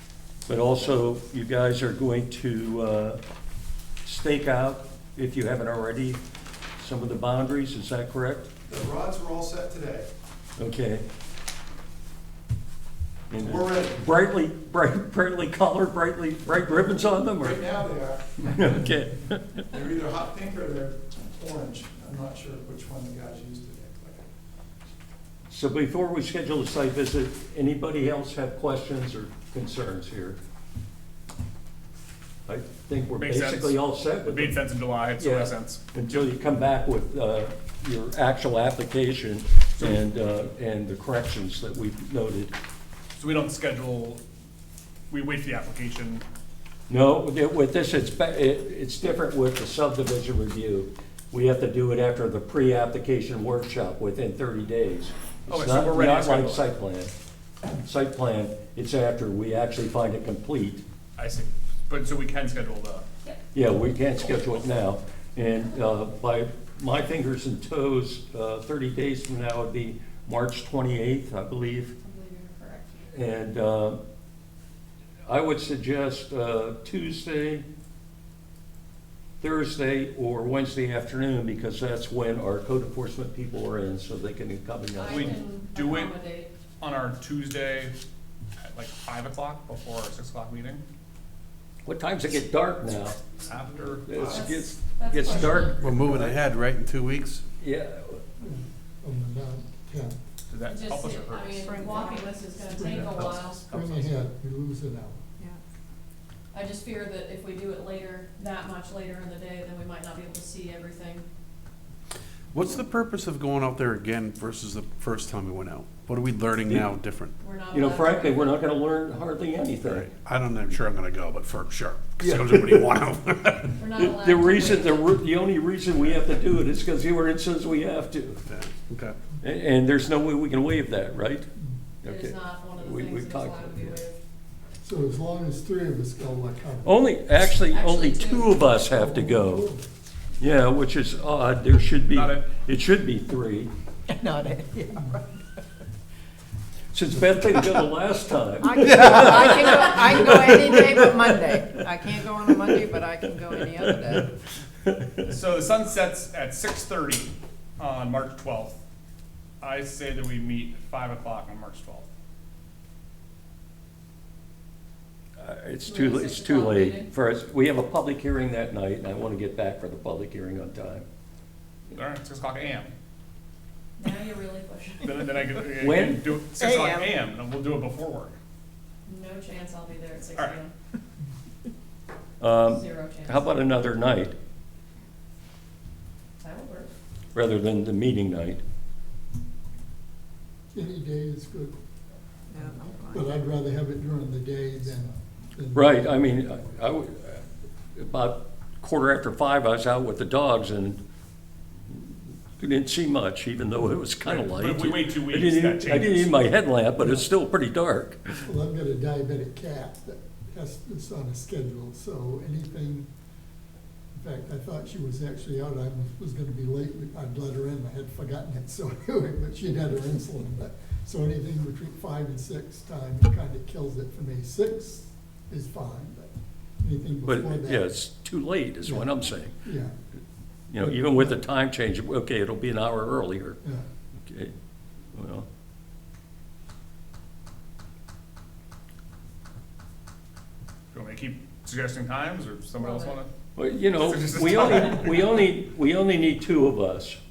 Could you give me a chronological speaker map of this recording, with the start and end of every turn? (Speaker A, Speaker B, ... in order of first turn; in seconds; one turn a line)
Speaker A: 0.5-3.2
Speaker A: 4.0-6.2
Speaker A: 6.8-8.5
Speaker B: 8.7-10.1
Speaker A: 10.6-11.1
Speaker A: 13.3-17.6
Speaker B: 13.3-14.0
Speaker B: 17.4-18.8
Speaker A: 18.4-19.6
Speaker B: 19.7-24.3
Speaker A: 25.5-30.4
Speaker A: 32.5-34.6
Speaker C: 33.2-36.3
Speaker A: 35.2-42.5
Speaker C: 43.2-44.2
Speaker C: 45.1-46.2
Speaker A: 46.9-57.1
Speaker C: 55.5-56.7
Speaker A: 57.7-60.8
Speaker C: 61.2-63.1
Speaker A: 63.5-71.9
Speaker C: 64.2-64.6
Speaker D: 72.0-73.1
Speaker A: 73.1-74.0
Speaker A: 75.3-77.7
Speaker A: 79.4-85.4
Speaker D: 85.0-86.5
Speaker C: 85.1-86.1
Speaker C: 86.8-88.0
Speaker C: 88.6-90.8
Speaker A: 91.9-93.2
Speaker C: 93.5-94.3
Speaker A: 94.1-96.2
Speaker D: 94.3-95.8
Speaker E: 95.2-95.7
Speaker F: 95.8-97.4
Speaker A: 97.6-98.2
Speaker E: 98.4-100.2
Speaker C: 100.5-102.1
Speaker D: 100.7-103.7
Speaker G: 101.7-102.4
Speaker C: 102.7-104.2
Speaker E: 102.8-105.2
Speaker D: 106.5-111.3
Speaker F: 112.5-117.3
Speaker D: 117.4-118.6
Speaker A: 117.7-120.1
Speaker F: 119.9-123.9
Speaker D: 123.8-125.1
Speaker A: 124.0-128.4
Speaker F: 128.5-129.2
Speaker A: 129.4-131.5
Speaker A: 132.0-134.0
Speaker D: 132.1-134.2
Speaker E: 134.8-136.9
Speaker A: 136.8-139.7
Speaker D: 137.7-138.6
Speaker E: 138.9-139.8
Speaker A: 140.4-143.7
Speaker C: 142.1-142.5
Speaker G: 144.2-145.1
Speaker A: 146.9-151.7
Speaker G: 148.7-154.2
Speaker A: 154.9-155.3
Speaker C: 155.3-158.8
Speaker C: 159.6-162.1
Speaker A: 165.4-171.1
Speaker D: 165.8-167.1
Speaker C: 171.9-172.9
Speaker D: 174.0-175.0
Speaker C: 175.0-178.3
Speaker A: 175.8-176.2
Speaker G: 176.6-177.1
Speaker D: 179.1-180.7
Speaker A: 182.4-184.3
Speaker D: 182.7-183.6
Speaker D: 186.4-186.9
Speaker A: 187.3-188.6
Speaker E: 190.7-191.8
Speaker G: 192.5-193.2
Speaker E: 192.7-196.4
Speaker A: 195.7-197.4
Speaker A: 198.0-201.0
Speaker A: 201.9-208.2
Speaker C: 204.2-206.5
Speaker E: 207.0-207.3
Speaker E: 208.4-213.1
Speaker E: 214.2-227.9
Speaker A: 227.3-229.6
Speaker E: 228.8-229.9
Speaker A: 230.7-233.6
Speaker E: 230.8-231.4
Speaker A: 234.2-234.5
Speaker A: 235.1-235.5
Speaker C: 240.9-243.3
Speaker D: 242.8-243.2
Speaker A: 243.6-247.2
Speaker C: 244.0-245.4